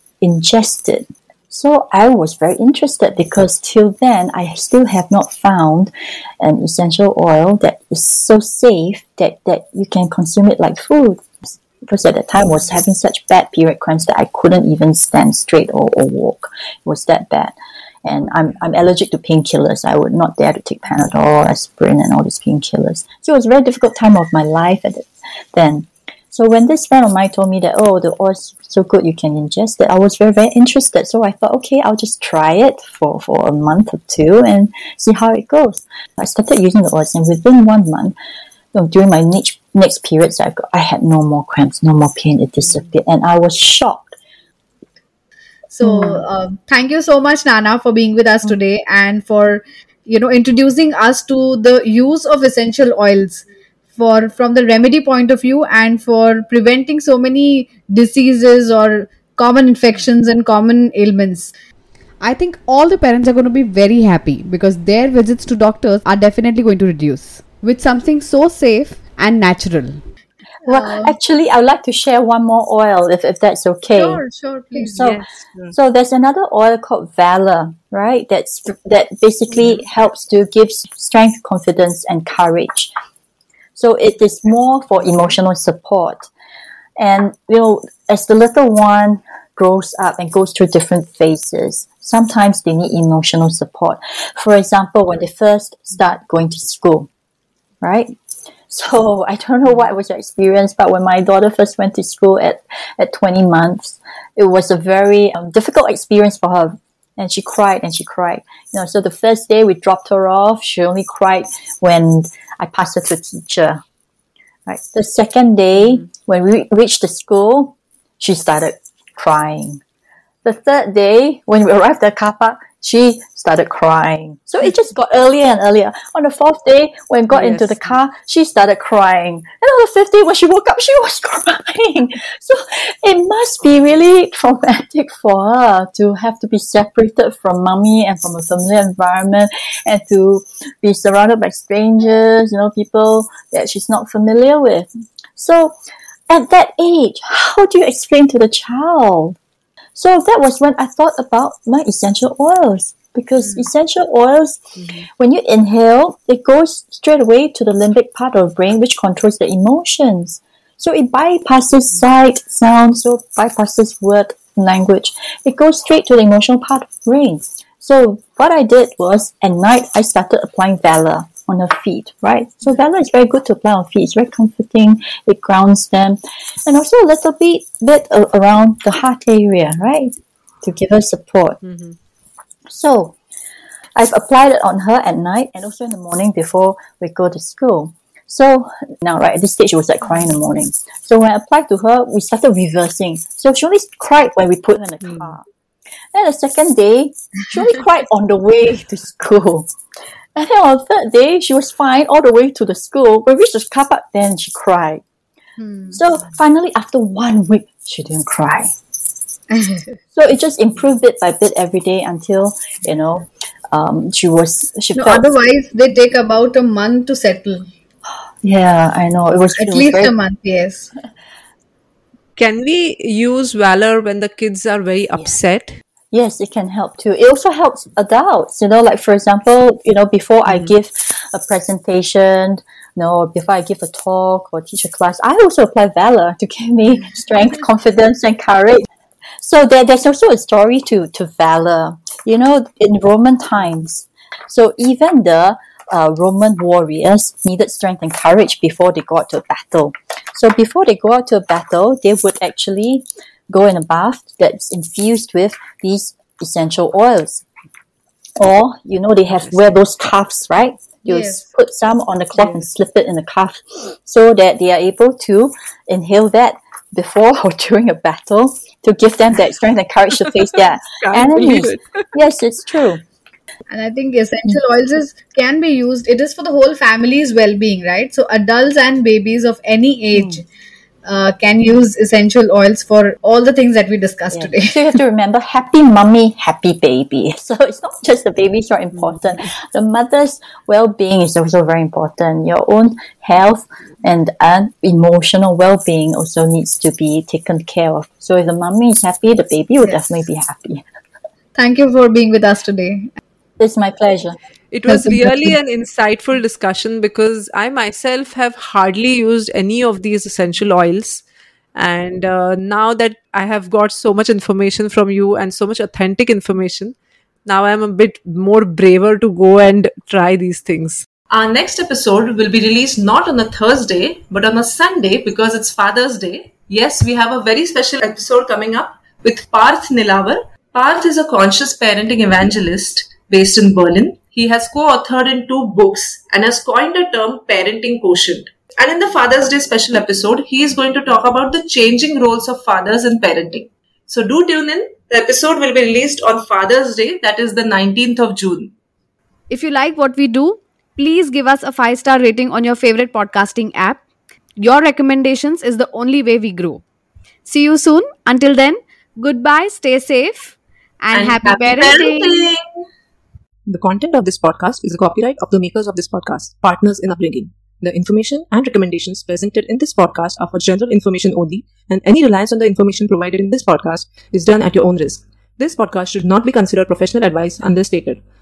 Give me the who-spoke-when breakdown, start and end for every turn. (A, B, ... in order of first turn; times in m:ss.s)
0:00.2-0:38.2 A
0:38.7-0:44.2 A
0:45.7-1:01.5 B
0:45.8-0:46.2 A
1:02.2-1:10.0 C
1:10.6-1:11.2 B
1:10.7-1:14.2 A
1:13.9-1:15.2 B
1:14.8-1:22.9 A
1:15.0-1:15.7 D
1:23.8-1:26.3 A
1:27.0-1:37.1 A
1:37.8-1:38.1 A
1:38.7-1:53.8 A
1:54.7-1:59.8 A
2:00.4-2:25.8 A
2:07.3-2:07.8 D
2:26.3-2:29.4 A
2:30.0-3:01.6 A
3:01.6-3:02.0 D
3:02.7-3:03.2 A
3:04.0-3:15.4 A
3:16.1-3:19.7 A
3:20.4-3:25.0 A
3:25.6-3:26.0 B
3:25.9-3:28.7 A
3:29.5-3:30.0 B
3:30.1-3:35.2 A
3:35.0-3:37.7 B
3:38.4-3:40.1 A
3:39.5-3:40.9 B
3:42.4-3:45.8 D
3:46.1-3:58.9 A
3:59.4-4:17.4 A
4:18.4-4:33.0 A
4:21.0-4:21.4 B
4:31.0-4:32.0 D
4:33.7-4:40.4 B
4:41.0-4:44.9 B
4:44.3-5:00.8 A
5:01.6-5:03.1 B
5:03.6-5:04.4 A
5:04.7-5:11.2 D
5:04.9-5:05.5 B
5:11.8-5:17.0 D
5:17.5-5:21.0 D
5:21.3-5:48.7 E
5:49.5-5:54.0 C
5:54.6-5:56.8 C
5:57.5-6:02.5 C
6:01.1-6:02.6 E
6:03.7-6:18.2 F